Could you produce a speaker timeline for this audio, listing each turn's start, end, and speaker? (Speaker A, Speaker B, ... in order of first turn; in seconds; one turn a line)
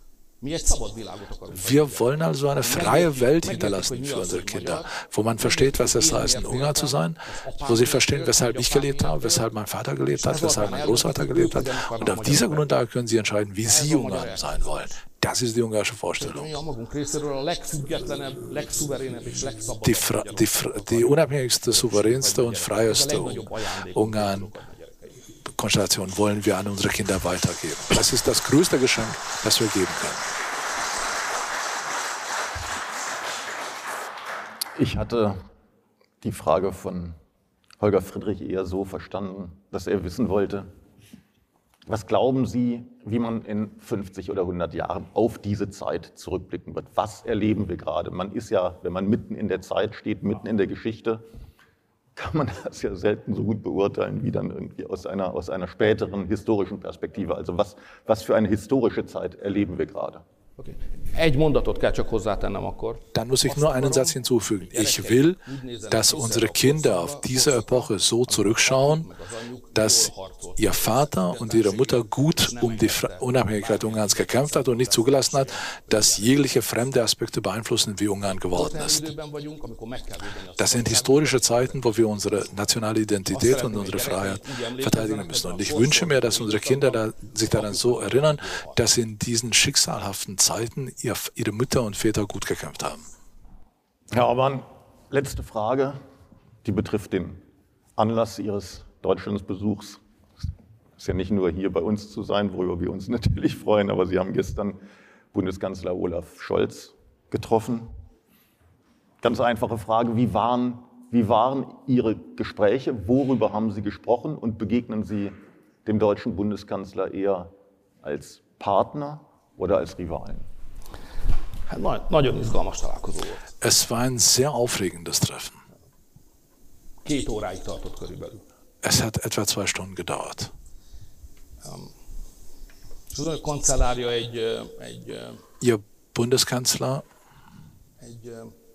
Speaker A: 0.4-9.5
Speaker B: 1.5-16.6
Speaker A: 10.1-12.7
Speaker A: 13.6-14.6
Speaker A: 16.2-25.2
Speaker B: 19.8-24.5
Speaker B: 25.5-30.3
Speaker C: 34.7-35.4
Speaker C: 36.2-37.2
Speaker C: 37.8-40.7
Speaker C: 41.9-51.2
Speaker C: 52.1-60.2
Speaker A: 60.6-76.4
Speaker B: 63.1-69.1
Speaker B: 69.7-79.1
Speaker A: 78.5-82.2
Speaker B: 80.6-93.0
Speaker A: 83.3-88.8
Speaker C: 94.1-96.0
Speaker C: 96.6-97.4
Speaker C: 98.0-100.0
Speaker C: 101.0-104.8
Speaker C: 105.3-107.9
Speaker C: 109.2-117.5
Speaker C: 118.0-120.5
Speaker A: 121.7-123.5
Speaker B: 123.6-125.6
Speaker A: 127.0-128.4
Speaker B: 128.8-130.5
Speaker A: 131.6-131.9
Speaker A: 133.1-135.4
Speaker B: 135.6-137.0
Speaker A: 138.0-138.5